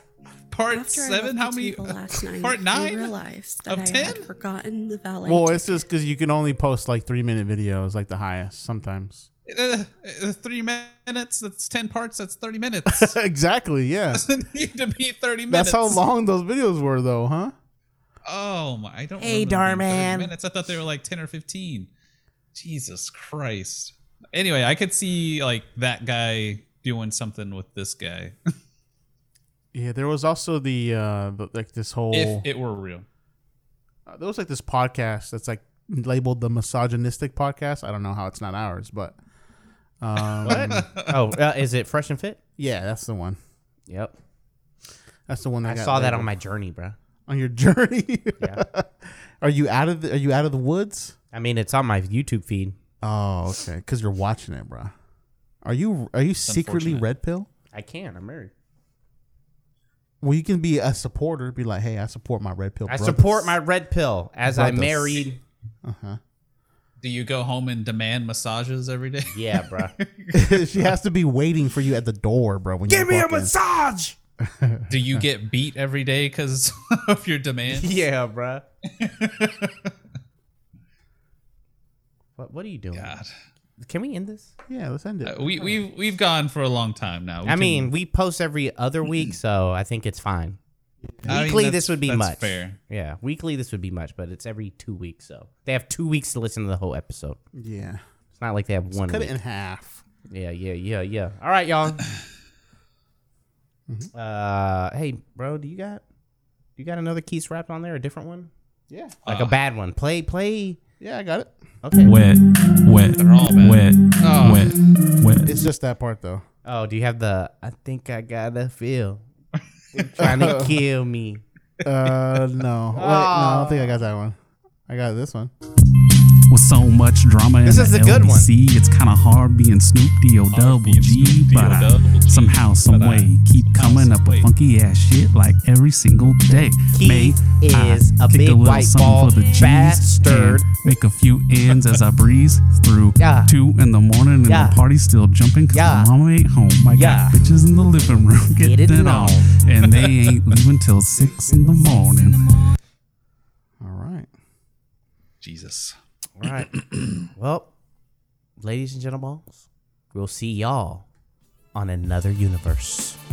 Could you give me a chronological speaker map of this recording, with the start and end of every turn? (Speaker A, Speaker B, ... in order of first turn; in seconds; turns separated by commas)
Speaker A: 0.5-3.1, Speaker B: 0.7-5.8, Speaker A: 3.7-4.2, Speaker C: 5.2-9.3, Speaker A: 9.5-13.1, Speaker C: 12.9-14.2, Speaker A: 14.1-16.0, Speaker C: 15.5-17.5, Speaker A: 18.3-21.9, Speaker D: 19.2-20.3, Speaker A: 22.6-28.4, Speaker C: 29.7-32.5, Speaker A: 32.1-33.1, Speaker C: 34.1-39.2, Speaker C: 40.0-40.9, Speaker A: 40.3-41.1, Speaker D: 40.5-42.4, Speaker C: 42.6-43.4, Speaker D: 43.9-44.2, Speaker C: 45.3-46.3, Speaker D: 45.6-47.0, Speaker C: 47.3-51.1, Speaker D: 51.3-52.8, Speaker C: 53.0-54.9, Speaker C: 55.6-57.5, Speaker A: 56.5-57.1, Speaker D: 57.7-58.5, Speaker C: 60.2-63.5, Speaker D: 62.9-65.4, Speaker C: 64.5-65.3, Speaker C: 65.8-66.2, Speaker A: 67.0-70.5, Speaker D: 69.3-69.9, Speaker C: 70.3-73.5, Speaker D: 72.9-74.2, Speaker C: 74.4-75.2, Speaker A: 74.9-78.0, Speaker D: 77.7-78.6, Speaker A: 79.0-79.9, Speaker D: 82.4-83.1, Speaker A: 82.9-83.3, Speaker D: 83.8-84.5, Speaker C: 84.7-85.8, Speaker A: 85.3-87.9, Speaker D: 87.5-90.6, Speaker C: 91.1-91.4, Speaker D: 91.3-97.4, Speaker A: 91.3-92.8, Speaker C: 97.5-98.0, Speaker D: 98.3-99.3, Speaker C: 98.9-100.0, Speaker D: 100.3-102.0, Speaker D: 104.1-106.0, Speaker D: 106.8-108.5, Speaker D: 109.2-110.8, Speaker A: 109.3-109.6, Speaker C: 111.0-111.5, Speaker D: 111.8-112.1, Speaker E: 112.0-115.5, Speaker A: 113.0-114.7, Speaker C: 115.5-116.5, Speaker D: 116.7-119.2, Speaker D: 119.9-121.4, Speaker C: 120.2-120.8, Speaker C: 121.8-125.5, Speaker D: 123.0-124.0, Speaker E: 126.5-152.4, Speaker D: 127.7-128.5, Speaker A: 130.5-134.5, Speaker D: 136.5-140.7, Speaker A: 141.6-142.0, Speaker D: 143.2-143.5, Speaker D: 144.4-144.8, Speaker D: 145.7-146.1, Speaker D: 146.9-147.4, Speaker D: 148.6-149.6, Speaker A: 148.9-150.3, Speaker A: 151.3-151.8, Speaker C: 153.8-154.3, Speaker A: 155.4-156.0, Speaker D: 156.4-156.7, Speaker D: 157.3-157.7, Speaker D: 158.6-161.1, Speaker D: 161.7-163.2